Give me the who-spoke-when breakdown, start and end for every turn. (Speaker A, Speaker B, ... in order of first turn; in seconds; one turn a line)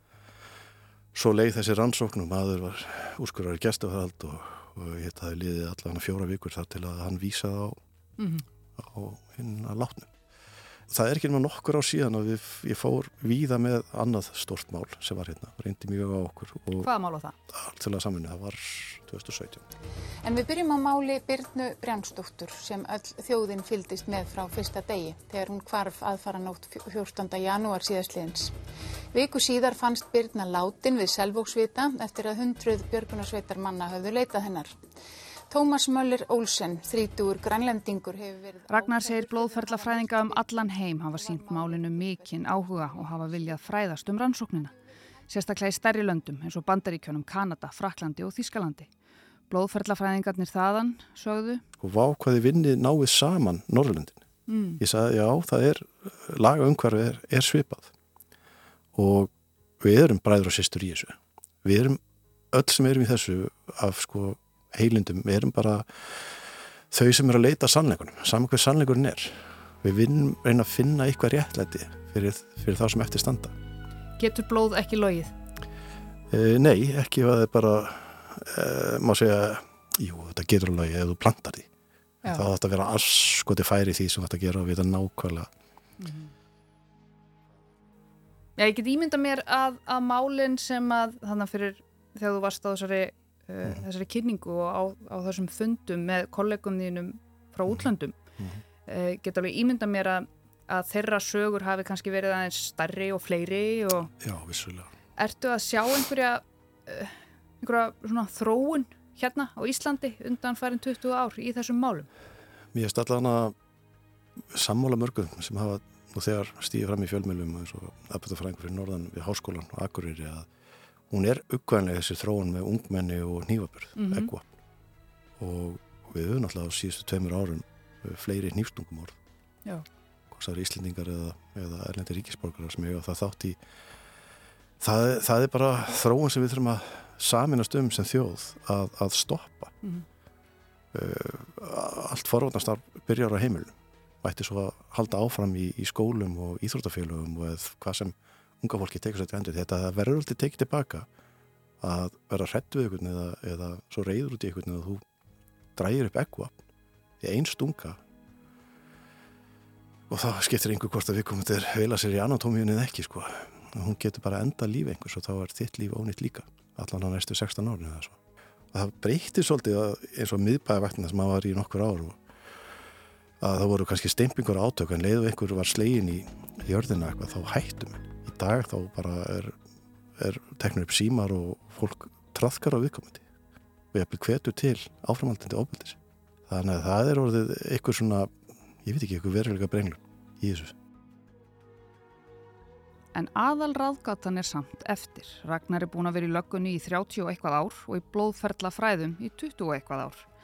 Speaker A: 1.1-7.8
Speaker B: 8.2-8.4
Speaker A: 8.8-10.1
Speaker A: 10.9-16.9
Speaker B: 16.8-17.4
Speaker A: 17.5-19.6
Speaker C: 20.2-28.5
Speaker C: 29.1-34.8
Speaker C: 35.5-42.3
Speaker B: 38.7-44.7
Speaker B: 45.3-48.9
Speaker B: 49.5-51.6
Speaker A: 51.8-54.2
Speaker B: 54.5-54.8
Speaker A: 54.8-57.9
Speaker A: 59.0-62.0
Speaker A: 62.5-66.2
Speaker A: 66.9-73.5
Speaker B: 74.2-75.3
Speaker A: 76.3-81.7
Speaker A: 82.2-85.5
Speaker B: 86.0-86.3
Speaker B: 88.6-98.2
Speaker B: 98.9-104.1
Speaker A: 104.2-104.9
Speaker B: 105.2-112.1
Speaker A: 112.7-113.5
Speaker A: 114.5-120.5
Speaker A: 121.1-124.5
Speaker B: 124.0-124.3
Speaker A: 125.4-129.2
Speaker A: 130.3-133.6
Speaker A: 134.8-139.8
Speaker A: 140.9-151.1
Speaker A: 151.8-155.0
Speaker A: 155.8-156.6
Speaker A: 157.2-158.0
Speaker A: 160.1-168.2
Speaker A: 168.7-172.2
Speaker A: 173.4-179.6
Speaker A: 180.2-183.2
Speaker A: 183.9-188.3
Speaker A: 188.8-190.8
Speaker B: 193.1-200.3